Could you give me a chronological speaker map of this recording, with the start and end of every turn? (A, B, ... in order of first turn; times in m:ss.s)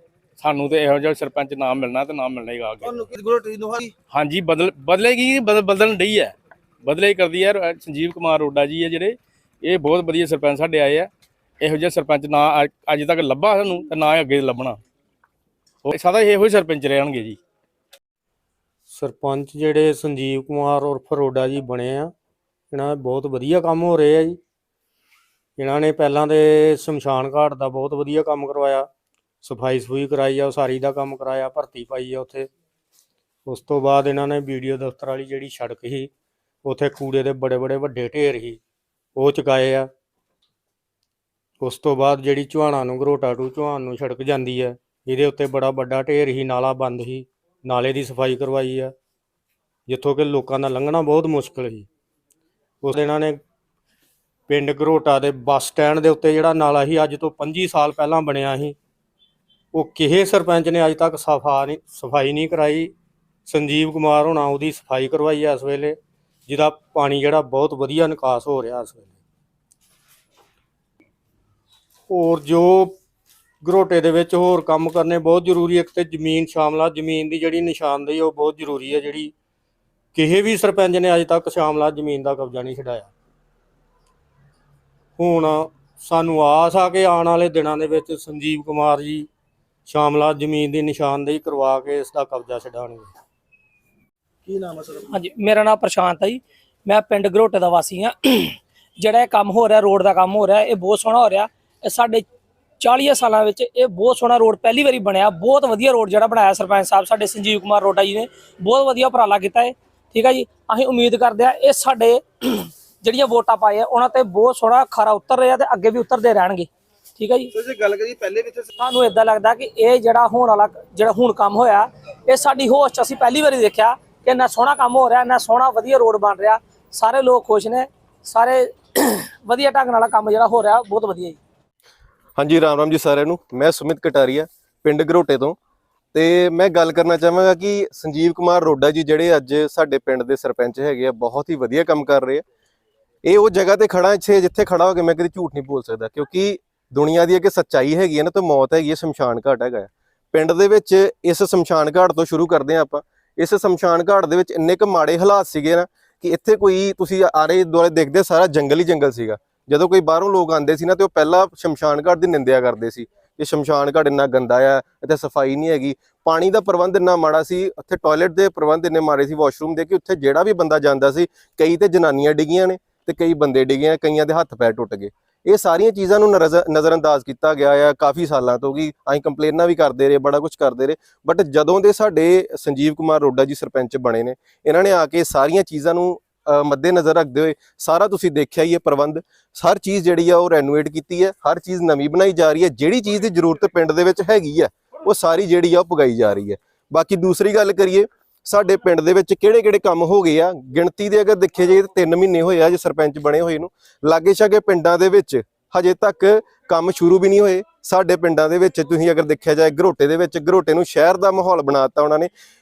0:00.4-0:03.0 A
0:02.9-0:03.9 B
0:04.1-0:11.1 A
0:11.6-0:14.8 A
0:15.8-0:17.4 A
0:18.9-0:22.1 C
0:22.7-0:24.4 C
0:25.6-0:28.9 C
0:29.4-0:32.5 C
0:33.5-0:36.1 C
0:36.6-0:38.6 C
0:39.2-0:39.9 C
0:41.6-0:48.9 C
0:49.9-0:51.9 C
0:52.8-0:53.4 C
0:54.5-0:58.8 C
0:59.7-1:02.9 C
1:03.5-1:09.2 C
1:12.1-1:13.0 C
1:13.6-1:19.3 C
1:20.1-1:23.1 C
1:25.2-1:29.3 C
1:29.9-1:33.1 C
1:34.5-1:34.8 B
1:35.0-1:42.2 D
1:42.8-1:57.5 D
1:57.7-1:58.6 B
1:58.8-2:11.4 D
2:12.4-2:15.6 E
2:16.1-2:22.4 E
2:23.2-3:32.3 E